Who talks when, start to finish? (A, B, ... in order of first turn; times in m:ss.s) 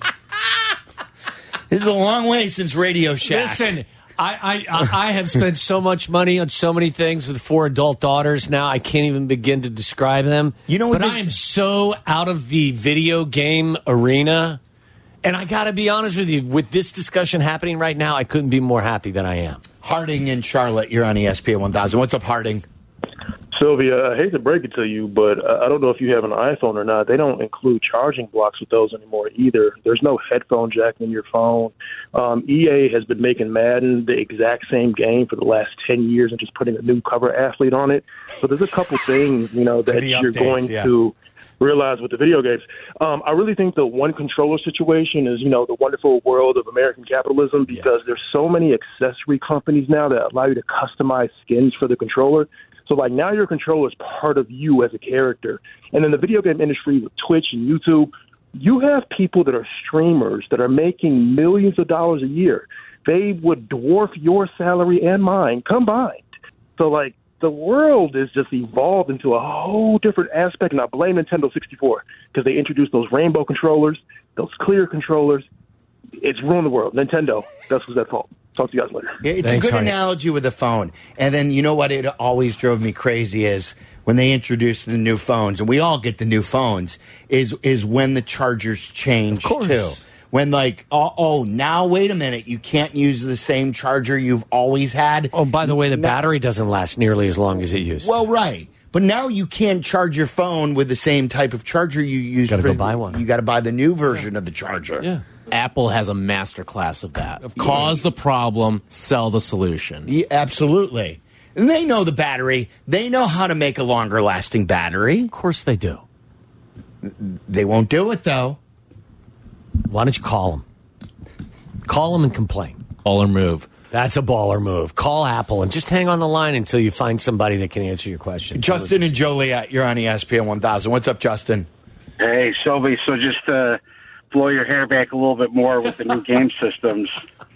0:01.7-0:03.7 A
0:03.2-0:14.6 B
0:10.7-0:11.2 A
0:15.2-0:19.6 B
0:19.8-0:22.6 A
0:23.5-1:06.3 C
0:39.9-0:40.9 A
1:06.8-1:15.5 C
1:16.2-1:19.2 C
1:19.2-1:36.2 A
1:19.4-1:20.0 B
1:29.4-1:30.0 B
1:35.3-1:38.2 B
1:38.0-1:45.1 A
1:42.5-1:43.2 B
1:45.5-1:50.1 D
1:47.6-1:48.0 A
1:50.1-1:55.3 A
1:55.3-1:56.0 B
1:57.0-1:58.6 A
1:59.9-2:00.6 B
2:01.9-2:02.8 B
2:03.0-2:03.7 D
2:03.9-2:09.1 B
2:08.6-2:11.7 A
2:12.2-2:17.2 E